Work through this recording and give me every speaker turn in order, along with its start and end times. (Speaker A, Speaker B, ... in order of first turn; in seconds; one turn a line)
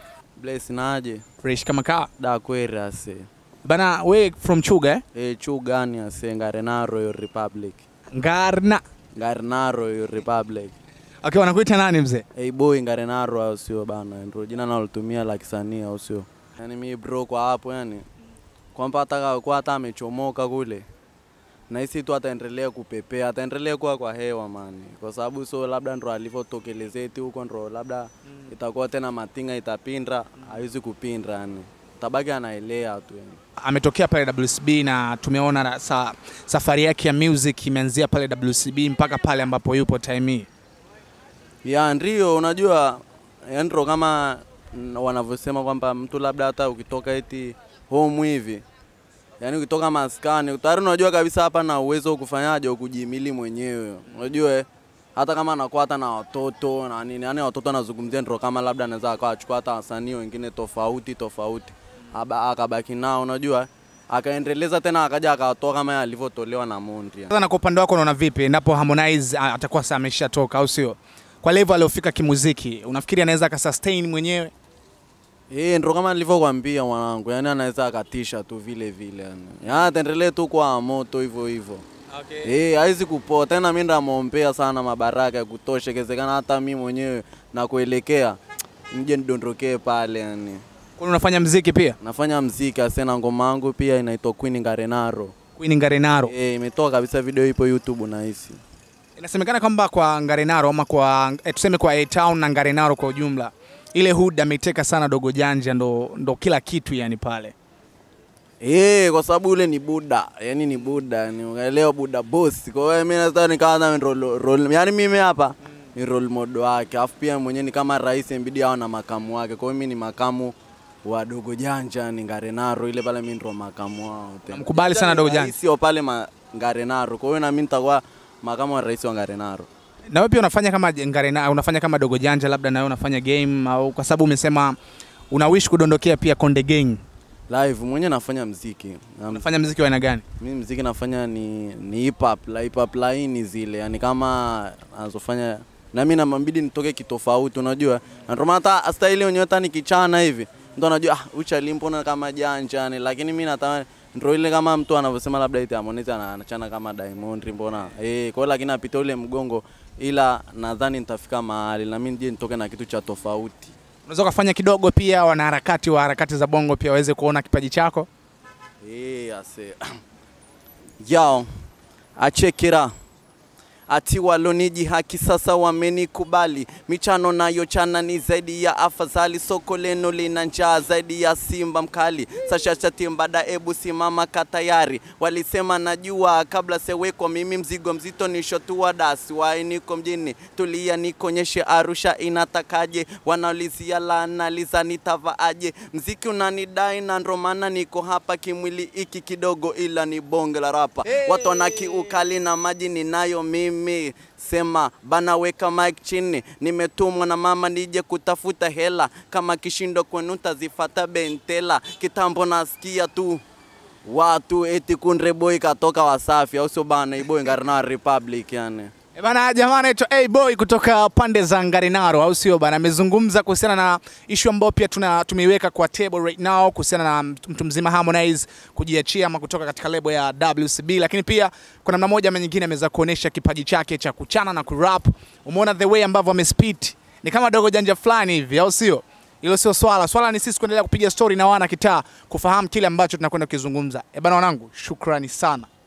Speaker A: 0.4-1.2
Speaker B: 1.4-2.1
Speaker A: 2.2-3.3
Speaker B: 3.6-5.0
Speaker A: 5.1-7.8
Speaker B: 8.1-8.8
Speaker A: 9.2-10.8
Speaker B: 11.2-12.2
Speaker A: 12.3-18.1
Speaker A: 18.8-20.9
Speaker A: 21.7-33.4
Speaker B: 33.6-40.5
Speaker A: 41.6-48.6
Speaker A: 49.4-67.3
Speaker B: 67.3-74.5
Speaker A: 75.5-81.8
Speaker B: 82.1-82.5
Speaker A: 82.4-88.4
Speaker A: 88.9-90.6
Speaker B: 91.0-92.0
Speaker A: 92.0-95.3
Speaker B: 95.6-96.3
Speaker A: 96.2-98.6
Speaker B: 99.2-107.5
Speaker A: 108.6-129.7
Speaker B: 124.5-125.6
Speaker B: 130.1-134.8
Speaker B: 135.3-137.0
Speaker A: 137.5-139.5
Speaker B: 139.3-140.2
Speaker A: 140.4-163.8
Speaker B: 164.1-168.1
Speaker A: 168.8-169.8
Speaker A: 171.0-171.5
Speaker A: 172.2-172.9
Speaker A: 173.9-213.4
Speaker B: 201.1-202.2
Speaker A: 214.1-218.9
Speaker B: 219.2-245.7